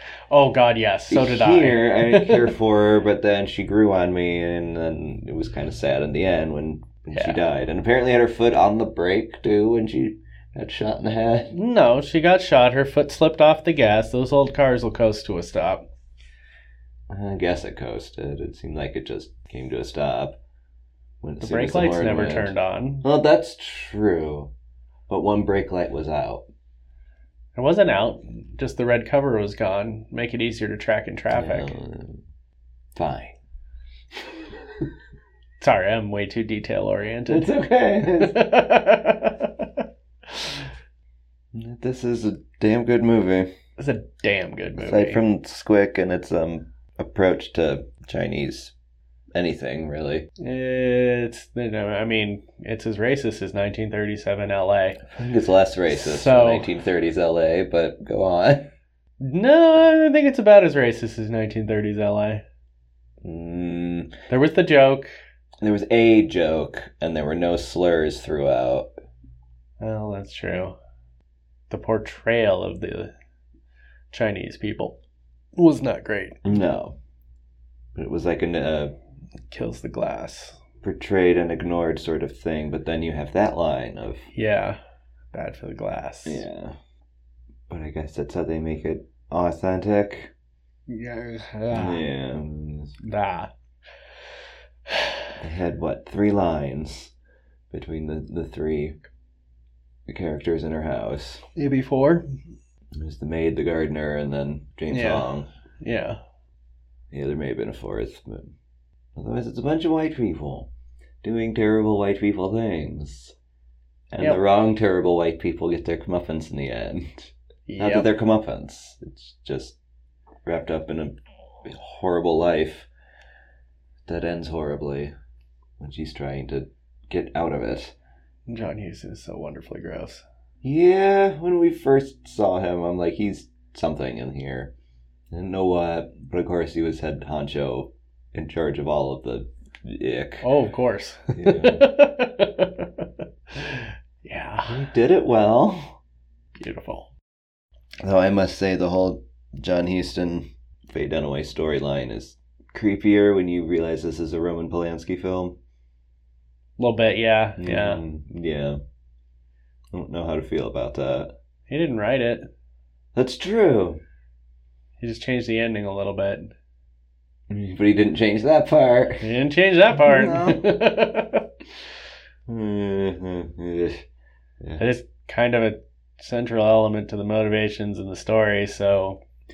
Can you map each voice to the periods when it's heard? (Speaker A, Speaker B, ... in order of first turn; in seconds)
Speaker A: 0.3-2.5, 7.1-7.4, 11.5-15.8, 21.4-23.0, 27.5-31.7, 35.6-37.5, 38.2-40.6, 43.8-45.2, 50.4-55.0, 55.9-56.7, 59.2-62.4, 64.3-65.1, 69.8-70.8, 71.7-73.1, 74.1-75.0, 75.5-76.4, 79.5-80.6, 84.3-84.8, 85.3-86.4, 90.9-92.0, 93.0-93.5, 94.9-95.3, 101.5-102.2, 104.9-105.3, 105.8-106.2, 117.7-118.1, 128.5-130.2, 140.4-144.8, 146.6-147.1, 156.8-158.0, 161.7-162.5, 165.0-166.5, 169.2-171.4, 174.8-179.2
Speaker B: 1.1-11.5, 17.1-20.4, 21.2-24.5, 25.1-26.4, 31.3-32.2, 33.0-33.4, 37.3-38.4, 41.5-43.5, 44.8-48.7, 49.3-50.2, 55.0-58.7, 63.2-64.1, 65.6-68.9, 76.4-77.0, 78.0-78.9, 80.8-84.3, 86.2-86.8, 87.7-90.3, 91.7-92.9, 95.4-97.1, 97.7-99.0, 100.1-101.4, 102.9-105.5, 107.1-108.5, 109.2-110.7, 111.2-113.3, 114.1-119.8, 120.5-122.9, 124.0-125.1, 125.8-127.9, 130.6-134.7, 135.3-140.4, 141.3-141.9, 144.6-146.0, 148.0-155.6, 157.6-158.8, 159.9-161.3, 163.1-164.0, 167.5-169.2, 170.0-170.7, 172.5-174.0